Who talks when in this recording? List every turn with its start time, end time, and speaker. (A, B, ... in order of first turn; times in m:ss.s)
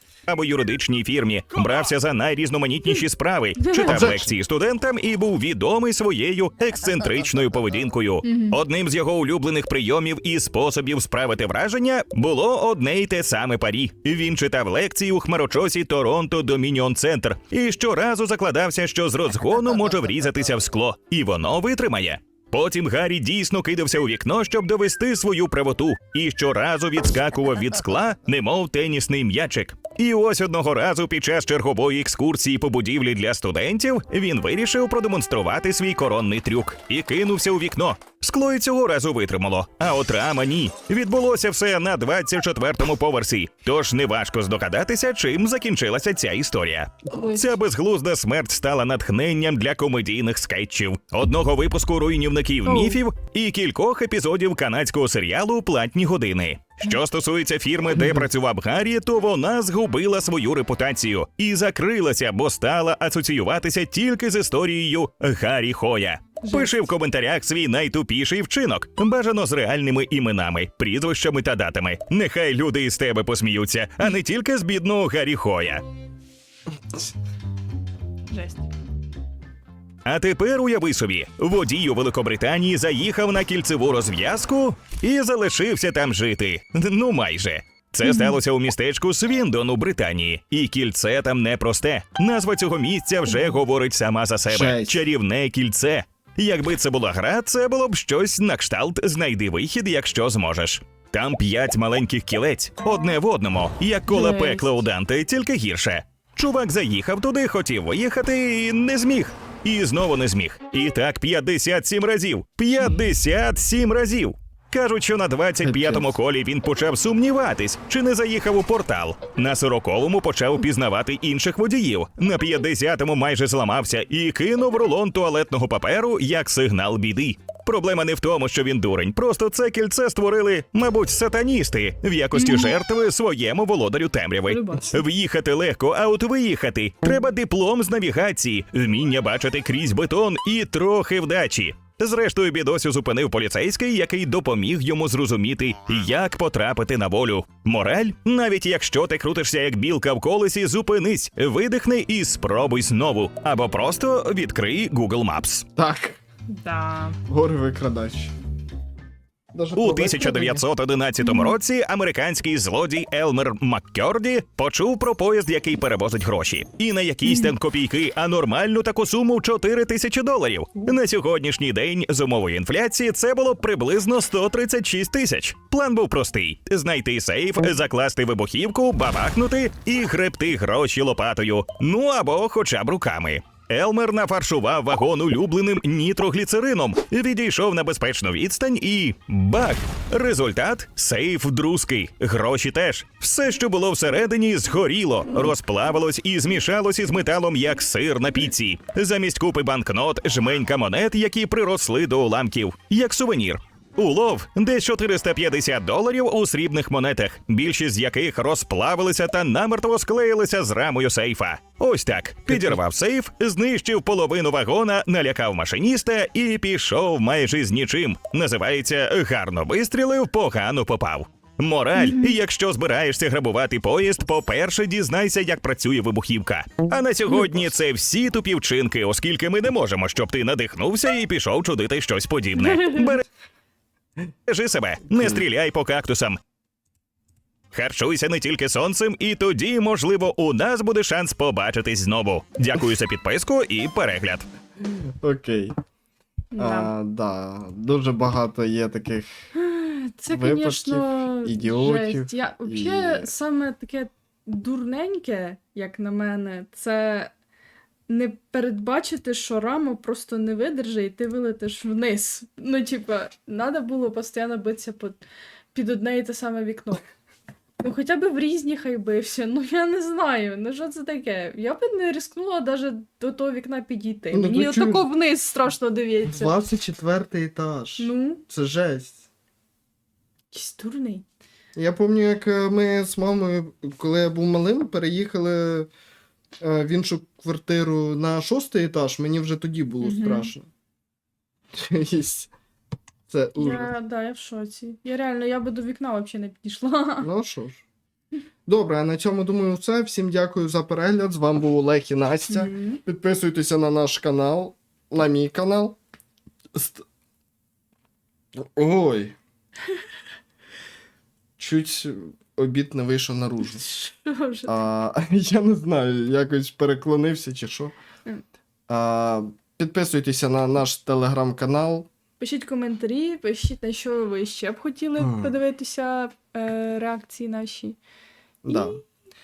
0:00.3-1:15.8 A
0:03.6-0:03.9 B
0:03.8-0:04.3 C
0:08.2-0:08.6 B
0:47.1-0:47.5 B
0:52.6-0:53.0 B
1:06.4-1:06.9 B
1:18.3-1:18.7 B
1:20.0-2:35.7 A
1:28.0-1:28.4 B
1:34.5-1:35.0 C
1:44.1-1:44.8 B
1:55.6-1:56.2 C
2:12.3-2:12.7 B
2:14.4-2:15.0 B
2:35.8-2:36.2 C
2:36.5-2:37.2 B
2:37.3-2:38.3 C
2:39.5-2:40.6 C
2:39.8-3:53.2 A
2:41.2-2:41.6 B
2:47.2-2:47.5 B
3:32.5-3:32.8 C
3:42.0-3:42.3 B
3:52.6-3:53.1 B
3:54.5-3:56.4 A
3:55.1-3:55.4 C
3:57.7-4:04.5 A
4:04.9-4:05.7 C
4:06.5-4:06.9 B
4:06.6-4:09.3 C
4:09.5-4:17.3 B
4:10.3-4:13.3 C
4:18.1-4:27.0 B
4:27.8-4:36.5 B
4:34.3-4:35.1 C
4:36.3-4:39.2 C
4:38.0-4:38.4 B
4:40.5-4:41.2 B
4:41.7-4:45.9 C
4:46.6-4:50.7 C
4:50.0-4:50.5 B
4:51.8-4:52.5 C
4:53.3-4:53.9 C
4:53.6-4:57.3 B
4:57.2-4:57.8 C
4:58.7-5:06.0 C
5:02.5-5:03.0 B
5:06.7-5:07.0 C
5:08.6-5:09.3 C
5:11.6-5:13.8 C
5:13.6-5:14.8 B
5:14.7-5:17.9 C
5:18.9-5:22.1 C
5:22.4-5:28.0 B
5:25.2-5:25.6 C
5:28.6-5:29.0 C
5:28.7-5:29.0 B